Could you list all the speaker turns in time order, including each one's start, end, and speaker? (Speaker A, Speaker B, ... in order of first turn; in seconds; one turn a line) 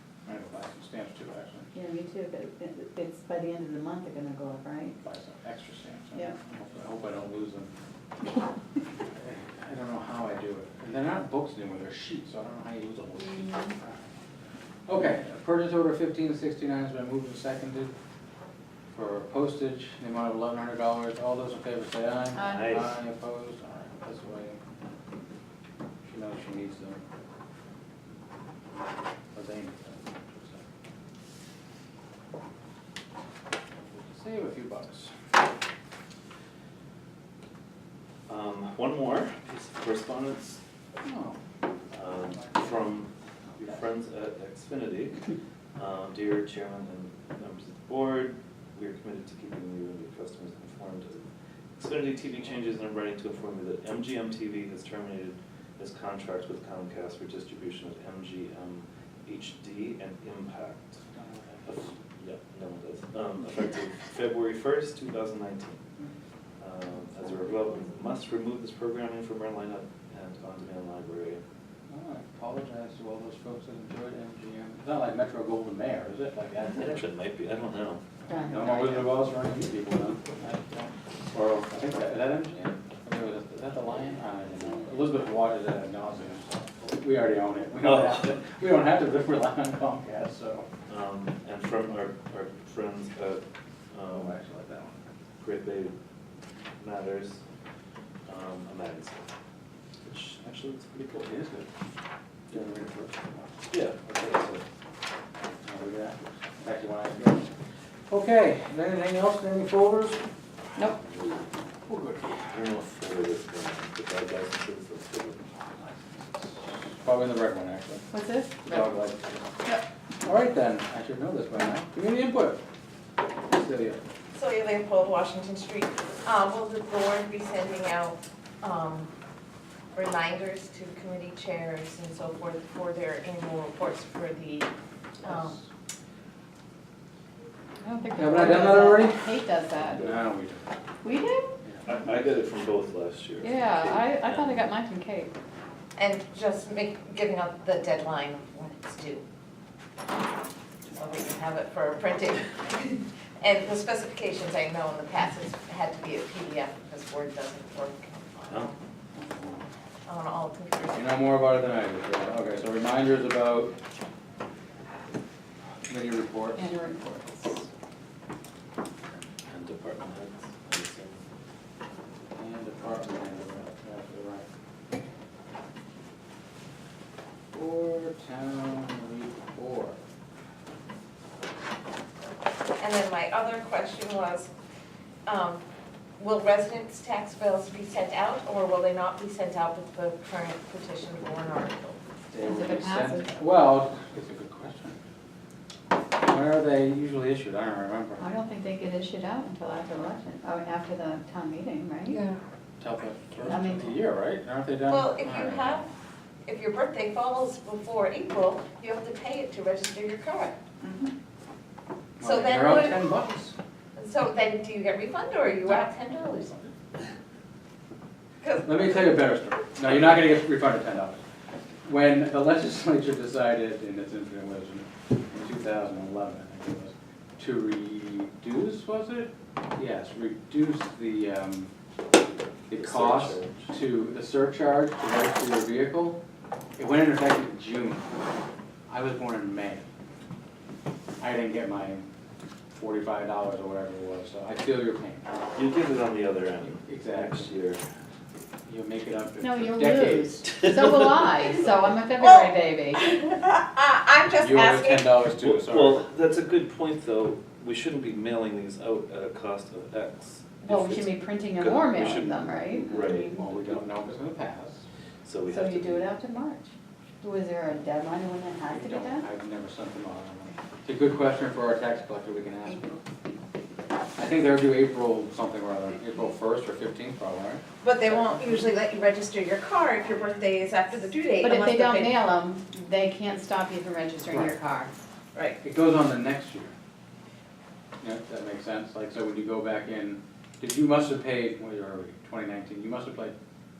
Speaker A: 0.2-1.7
Speaker B: 1.7-5.0
Speaker A: 5.0-7.7
Speaker A: 9.1-14.0
Speaker A: 14.9-17.9
Speaker A: 18.9-24.6
Speaker C: 22.4-22.9
Speaker A: 26.0-27.0
Speaker A: 29.3-30.6
Speaker A: 33.9-35.1
Speaker C: 38.3-40.6
Speaker A: 41.0-41.4
Speaker C: 41.9-51.2
Speaker A: 42.1-42.9
Speaker A: 43.5-43.8
Speaker C: 51.8-61.0
Speaker A: 61.1-62.0
Speaker C: 61.6-65.8
Speaker C: 66.6-71.4
Speaker A: 71.9-77.0
Speaker C: 76.7-78.0
Speaker B: 78.3-79.2
Speaker A: 78.5-90.7
Speaker C: 87.8-88.3
Speaker C: 90.9-94.3
Speaker A: 94.1-95.0
Speaker C: 95.4-95.9
Speaker C: 96.8-97.4
Speaker C: 98.2-99.3
Speaker C: 100.0-101.4
Speaker A: 101.2-101.7
Speaker A: 102.5-103.5
Speaker C: 103.7-104.6
Speaker A: 105.6-107.5
Speaker A: 108.1-110.2
Speaker C: 111.1-111.3
Speaker A: 111.9-112.5
Speaker C: 112.4-115.5
Speaker A: 115.8-118.1
Speaker B: 118.1-118.9
Speaker A: 118.6-119.5
Speaker A: 120.2-122.6
Speaker A: 123.5-124.0
Speaker D: 124.3-129.1
Speaker D: 129.9-134.7
Speaker D: 135.2-135.6
Speaker B: 137.8-140.1
Speaker A: 138.1-139.2
Speaker A: 139.8-140.7
Speaker B: 141.0-141.5
Speaker C: 141.8-144.6
Speaker B: 143.4-145.3
Speaker D: 145.9-149.2
Speaker D: 150.9-158.8
Speaker A: 159.2-159.6
Speaker D: 160.1-161.1
Speaker A: 160.9-163.7
Speaker A: 165.9-166.7
Speaker B: 166.6-167.7
Speaker C: 169.5-171.2
Speaker A: 172.3-174.4
Speaker A: 177.5-180.0
Speaker D: 182.8-184.5
Speaker D: 185.2-185.6
Speaker D: 186.2-192.0
Speaker A: 192.3-195.0
Speaker B: 192.4-193.4
Speaker A: 196.2-198.2
Speaker B: 198.2-202.3
Speaker A: 202.8-205.8
Speaker B: 203.5-203.9
Speaker D: 204.9-205.9
Speaker D: 206.4-210.5
Speaker A: 212.2-213.5
Speaker D: 212.2-213.2
Speaker D: 213.9-216.6
Speaker D: 218.4-219.0
Speaker A: 218.6-221.2
Speaker A: 221.8-231.7
Speaker A: 232.7-236.2
Speaker C: 232.7-233.7
Speaker A: 236.8-238.0
Speaker A: 238.9-239.9
Speaker A: 241.2-242.1
Speaker A: 242.7-245.4
Speaker C: 245.5-247.8
Speaker A: 246.6-247.5
Speaker A: 248.7-250.5
Speaker B: 249.4-253.1
Speaker C: 250.5-251.2
Speaker D: 252.2-255.2
Speaker A: 254.4-256.1
Speaker C: 255.4-263.4
Speaker B: 260.6-263.4
Speaker A: 263.1-264.8
Speaker C: 265.2-266.1
Speaker B: 265.5-266.7
Speaker B: 267.2-269.3
Speaker A: 268.7-272.9
Speaker A: 274.2-277.6
Speaker D: 277.8-282.2
Speaker A: 280.1-280.4
Speaker B: 281.4-285.1
Speaker A: 284.3-284.6
Speaker D: 285.3-285.6
Speaker A: 285.6-286.7
Speaker A: 288.0-293.3